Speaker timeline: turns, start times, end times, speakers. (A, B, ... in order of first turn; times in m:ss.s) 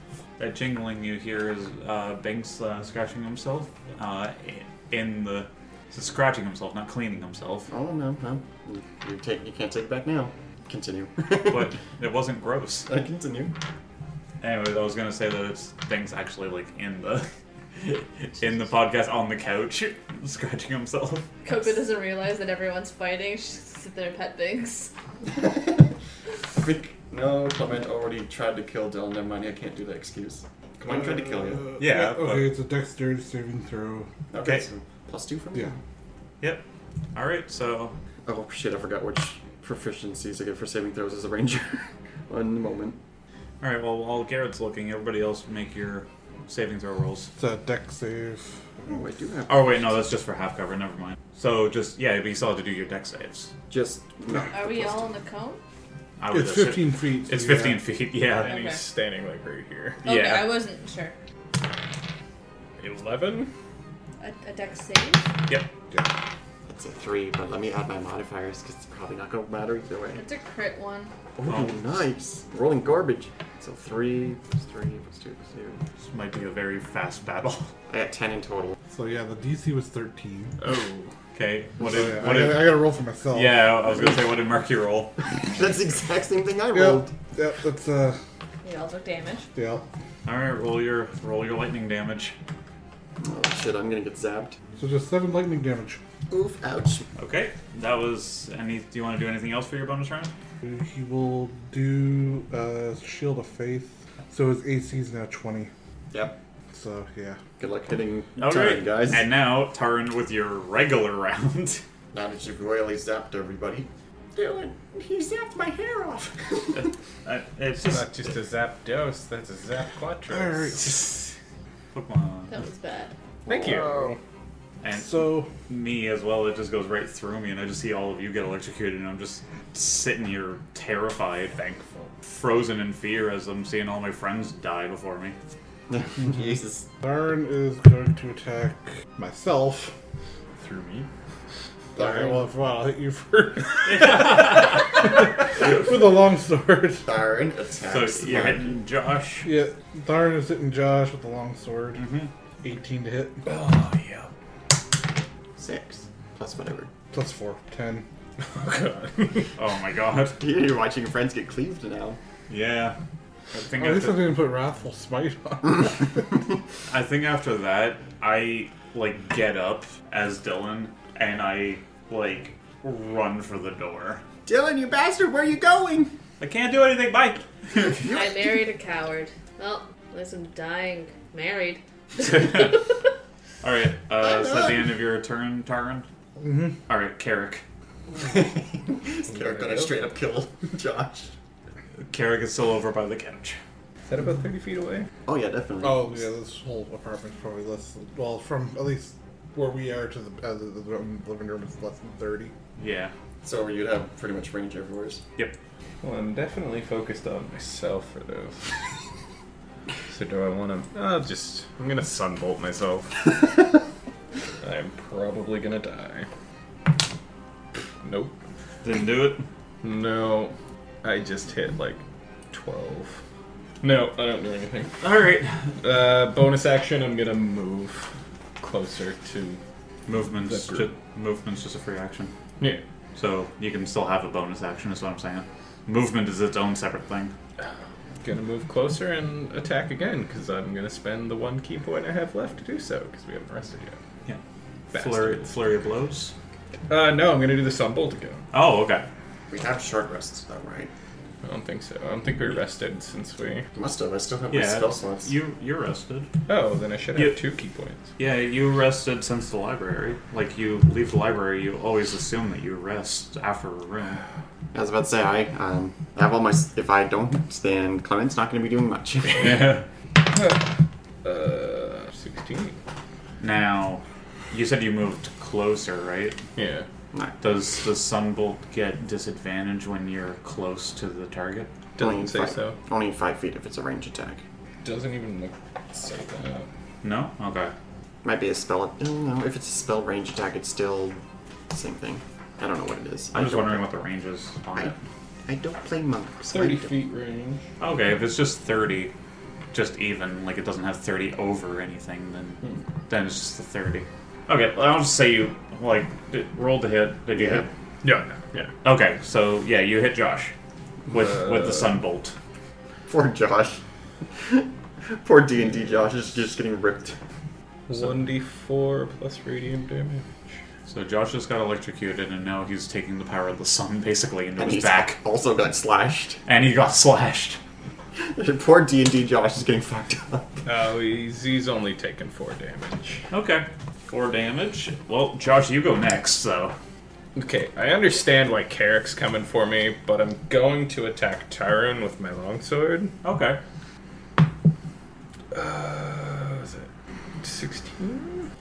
0:00.4-0:07.7 A
0:07.7-0:11.7 B
0:11.4-0:12.9 A
0:12.9-0:13.5 B
0:14.4-0:21.2 A
0:21.4-0:24.9 C
0:25.3-0:25.9 B
0:26.5-0:31.6 B
0:30.8-0:34.1 D
0:31.8-0:32.5 A
0:34.3-0:35.8 B
0:34.4-0:34.6 A
0:36.4-0:38.0 A
0:38.2-0:43.0 B
0:43.6-0:47.3 A
0:47.4-0:49.0 D
0:48.8-0:50.0 B
0:49.5-0:53.5 A
0:53.7-0:55.1 B
0:54.5-0:55.6 C
0:56.2-0:58.5 A
0:56.3-0:57.8 D
0:58.4-1:00.0 E
0:58.4-0:58.8 C
1:00.0-1:00.5 A
1:00.0-1:01.1 C
1:02.8-1:03.5 E
1:04.2-1:05.3 C
1:06.7-1:10.2 B
1:10.2-1:11.1 C
1:11.4-1:15.8 B
1:11.5-1:11.8 A
1:16.0-1:17.7 A
1:17.9-1:18.7 B
1:18.9-1:20.6 D
1:20.6-1:21.1 E
1:21.3-1:25.2 A
1:21.8-1:24.1 D
1:25.4-1:27.1 B
1:26.7-1:28.2 D
1:28.6-1:29.5 C
1:29.5-1:29.8 D
1:30.2-1:32.3 A
1:33.2-1:34.6 B
1:34.8-1:36.0 D
1:36.3-1:37.1 B
1:37.2-1:40.3 A
1:40.6-1:45.7 D
1:46.1-1:46.4 B
1:46.7-1:47.4 D
1:47.6-1:49.3 B
1:48.4-1:51.8 A
1:52.1-1:56.8 B
1:56.7-1:58.3 A
1:57.7-2:01.3 E
2:00.3-2:01.2 D
2:01.9-2:02.6 A
2:02.5-2:03.1 C
2:03.4-2:04.1 B
2:03.5-2:04.2 E
2:04.8-2:15.3 A
2:04.9-2:05.5 D
2:11.8-2:12.1 E
2:15.9-2:16.9 B
2:17.0-2:19.9 D
2:20.6-2:21.1 E
2:21.9-2:27.0 D
2:22.0-2:22.4 B
2:23.8-2:24.9 A
2:27.0-2:28.8 B
2:27.9-2:29.5 A
2:29.4-2:32.0 D
2:31.9-2:32.3 A
2:32.6-2:33.5 D
2:33.4-2:34.3 E
2:35.6-2:36.9 B
2:37.1-2:38.0 D
2:38.4-2:39.5 E
2:39.6-2:40.4 A
2:40.4-2:42.2 B
2:42.5-2:43.0 A
2:43.5-2:44.3 A
2:43.7-2:46.3 D
2:46.9-2:54.2 A
2:54.4-2:56.1 B
2:56.4-2:58.1 A
2:58.0-2:58.6 B
2:58.0-3:03.0 C
3:02.2-3:02.8 A
3:03.6-3:06.0 A
3:04.2-3:04.9 B
3:06.4-3:06.8 D
3:06.9-3:07.6 A
3:08.2-3:11.3 B
3:09.3-3:10.0 E
3:12.0-3:13.6 A
3:14.1-3:15.1 E
3:15.2-3:16.2 B
3:15.8-3:22.5 D
3:22.8-3:23.1 A
3:23.4-3:25.2 B
3:26.0-3:28.8 E
3:30.1-3:33.8 E
3:34.6-3:36.3 E
3:38.0-3:38.4 E
3:38.8-3:39.4 A
3:39.8-3:43.2 E
3:43.8-3:45.0 E
3:45.0-3:45.8 A
3:45.8-3:49.6 E
3:50.1-3:52.3 A
3:50.4-3:50.9 E
3:53.1-3:57.3 A
3:58.2-4:04.0 E
4:04.9-4:05.5 E
4:04.9-4:06.3 A
4:06.9-4:08.4 E
4:08.5-4:09.1 A
4:09.5-4:10.9 B
4:11.4-4:13.6 E
4:13.8-4:15.3 B
4:14.5-4:16.3 A
4:16.5-4:18.1 E
4:17.1-4:17.4 A
4:18.2-4:24.2 A
4:24.7-4:29.7 B
4:29.4-4:29.8 A
4:30.2-4:30.6 E
4:31.2-4:32.8 E
4:33.4-4:36.4 A
4:36.6-4:36.9 E
4:37.1-4:37.4 B
4:37.4-4:41.7 A
4:42.0-4:42.8 E
4:42.0-4:44.4 B
4:44.8-4:46.7 E
4:47.0-4:47.7 A
4:48.2-4:53.8 B
4:53.3-4:55.0 A
4:55.4-4:57.0 B
4:56.5-4:57.6 E
4:57.8-4:59.1 A
4:59.7-5:07.7 A
5:07.3-5:07.7 B
5:08.0-5:08.7 E
5:08.8-5:10.5 A
5:11.1-5:12.4 A
5:11.1-5:11.9 E
5:13.1-5:13.8 B
5:14.4-5:17.2 B
5:17.9-5:20.3 E
5:20.9-5:25.2 A
5:24.6-5:26.4 B
5:26.4-5:27.6 A
5:28.2-5:30.5 B
5:30.6-5:33.2 E
5:33.3-5:36.8 A
5:37.4-5:43.1 E
5:43.2-5:43.6 A
5:45.5-5:46.9 E
5:47.4-5:48.5 E